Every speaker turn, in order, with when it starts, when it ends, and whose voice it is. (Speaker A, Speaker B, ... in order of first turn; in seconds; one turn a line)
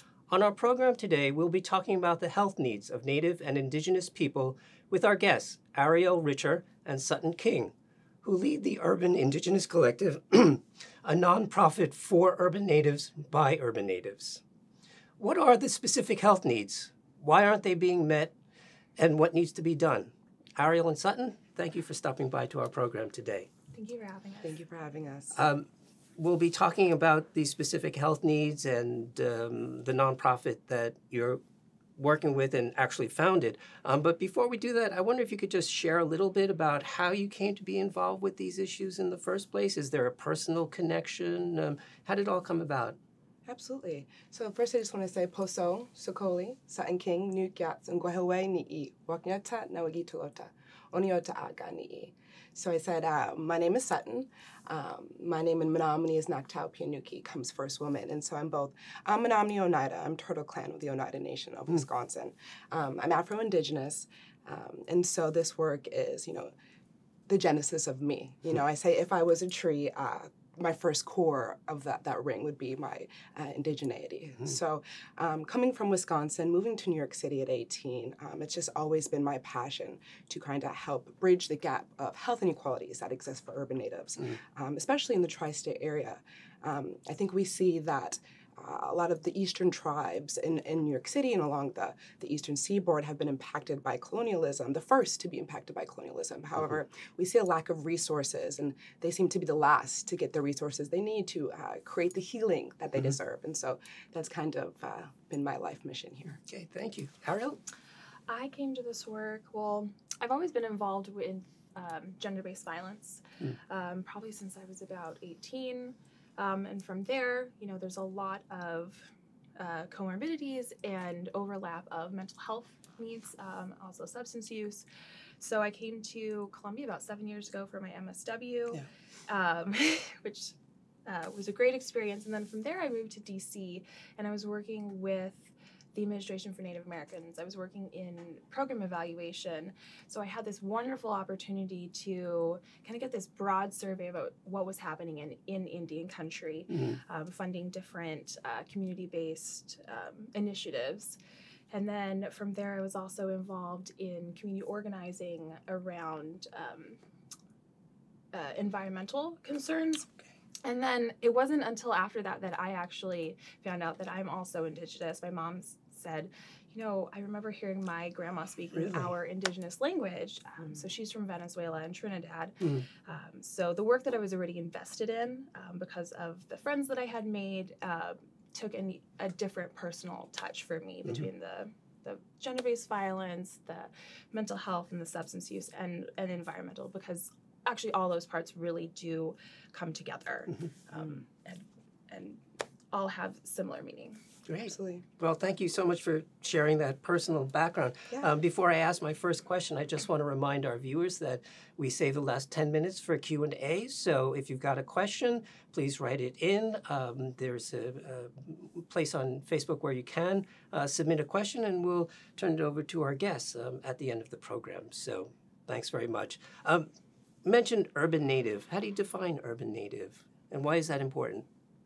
Speaker A: 0.3-14.4
Speaker A: 15.2-18.3
Speaker A: 19.0-23.5
Speaker B: 23.7-24.6
Speaker C: 24.4-25.4
Speaker A: 25.4-31.4
Speaker A: 32.0-43.0
Speaker C: 43.5-66.5
Speaker C: 67.3-106.4
Speaker A: 106.5-107.6
Speaker B: 108.3-124.8
Speaker B: 125.4-130.5
Speaker B: 131.1-151.2
Speaker A: 146.7-147.0
Speaker B: 151.7-157.0
Speaker B: 158.3-160.1
Speaker B: 160.6-194.2
Speaker A: 168.7-169.1
Speaker A: 172.6-172.8
Speaker A: 194.5-216.9
Speaker C: 194.6-195.0
Speaker A: 217.4-221.4